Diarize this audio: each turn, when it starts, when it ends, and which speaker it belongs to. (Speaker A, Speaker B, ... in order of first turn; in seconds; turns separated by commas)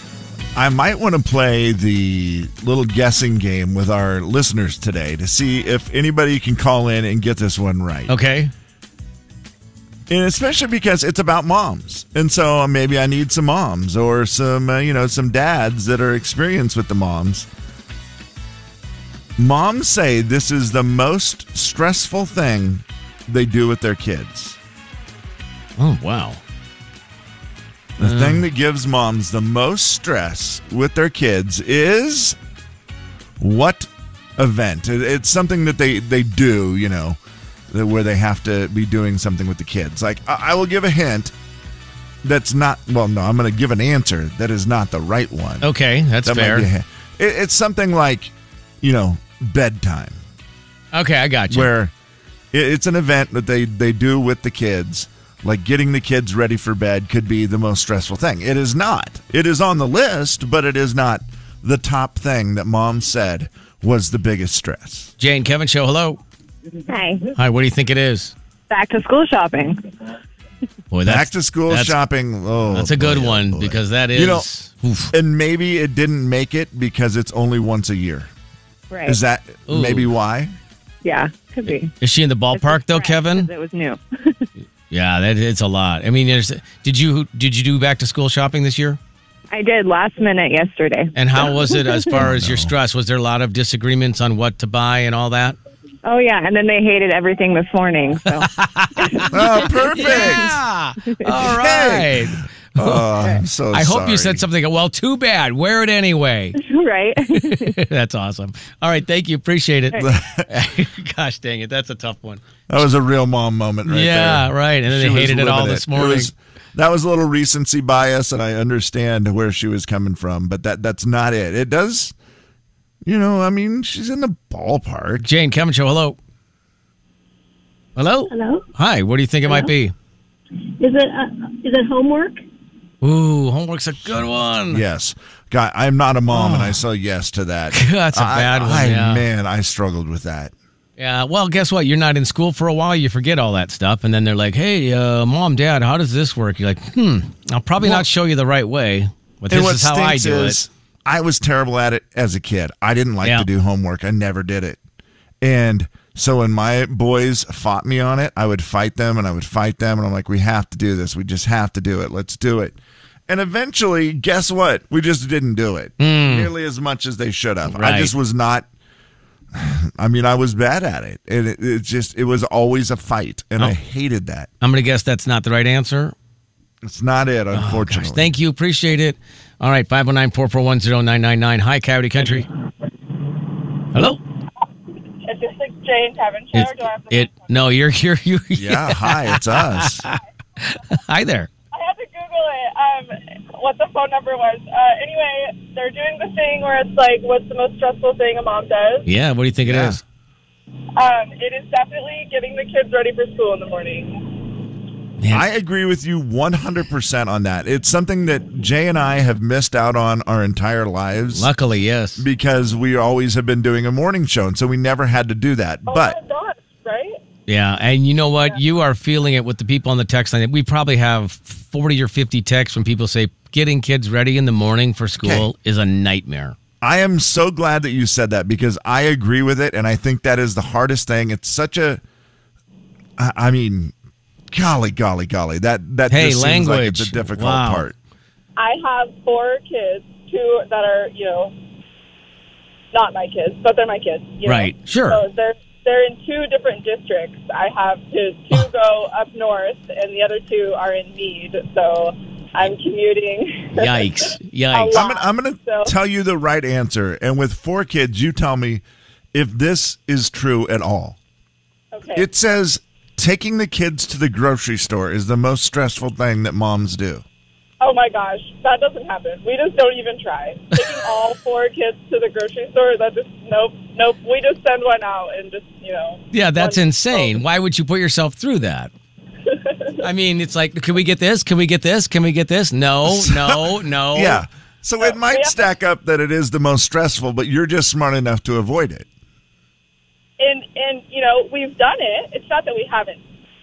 Speaker A: 0.5-8.1, Speaker B: 8.1-8.5, Speaker A: 10.1-17.5, Speaker A: 19.4-24.6, Speaker B: 25.8-26.4, Speaker B: 28.0-28.4, Speaker A: 28.0-32.4, Speaker A: 33.4-37.2, Speaker A: 37.7-41.3, Speaker A: 42.2-45.7, Speaker B: 45.6-46.7, Speaker A: 46.2-50.2, Speaker B: 50.9-51.7, Speaker A: 51.5-51.9, Speaker A: 52.5-65.1, Speaker B: 65.2-66.2, Speaker C: 66.9-67.3, Speaker B: 67.3-68.3, Speaker C: 68.7-69.8, Speaker B: 70.9-72.0, Speaker A: 71.0-74.5, Speaker B: 72.7-75.1, Speaker A: 75.1-78.3, Speaker C: 78.9-79.2, Speaker A: 79.0-80.5, Speaker B: 79.7-80.1, Speaker C: 81.0-81.9, Speaker B: 82.0-83.5, Speaker C: 82.5-84.4, Speaker B: 84.9-89.0, Speaker C: 89.5-92.1, Speaker B: 91.1-95.6, Speaker A: 92.1-92.7, Speaker C: 96.0-100.5, Speaker B: 98.4-106.6, Speaker A: 99.3-100.6, Speaker A: 101.4-104.4, Speaker C: 106.5-107.8, Speaker B: 107.3-112.4, Speaker A: 109.9-110.5, Speaker A: 112.7-122.1, Speaker B: 113.8-116.3, Speaker A: 123.0-125.2, Speaker B: 125.2-126.2, Speaker B: 128.0-129.9, Speaker D: 128.3-128.6, Speaker D: 130.8-132.4, Speaker B: 133.0-134.8, Speaker A: 134.7-140.5, Speaker B: 136.3-136.8, Speaker B: 137.7-139.2, Speaker B: 141.0-150.6, Speaker A: 147.8-148.1, Speaker A: 149.5-154.8, Speaker A: 155.4-162.8, Speaker A: 163.3-168.7, Speaker B: 166.0-166.5, Speaker B: 167.7-168.1, Speaker A: 169.5-174.5, Speaker B: 174.6-176.1, Speaker A: 176.8-178.4, Speaker B: 177.5-182.5, Speaker B: 183.9-184.2, Speaker E: 185.2-187.6, Speaker B: 186.5-191.5, Speaker A: 188.6-190.0, Speaker E: 191.7-199.1, Speaker B: 199.1-200.0, Speaker A: 199.6-200.0, Speaker E: 200.9-204.3, Speaker B: 205.2-205.4, Speaker A: 205.3-211.5, Speaker B: 211.3-212.2, Speaker A: 212.2-216.2, Speaker E: 215.9-217.2, Speaker B: 217.5-226.6, Speaker A: 225.2-225.5, Speaker A: 226.8-232.0, Speaker A: 233.2-233.9, Speaker A: 234.5-237.9, Speaker B: 236.1-237.8, Speaker E: 238.6-241.5, Speaker E: 242.9-255.9, Speaker B: 244.4-245.2, Speaker B: 253.8-255.0, Speaker A: 254.9-261.2, Speaker E: 261.9-262.2, Speaker A: 262.1-267.2, Speaker E: 267.8-277.3, Speaker B: 276.3-278.9, Speaker E: 279.5-280.0, Speaker B: 280.0-284.4, Speaker A: 283.0-289.1, Speaker E: 285.0-285.6, Speaker E: 290.4-293.2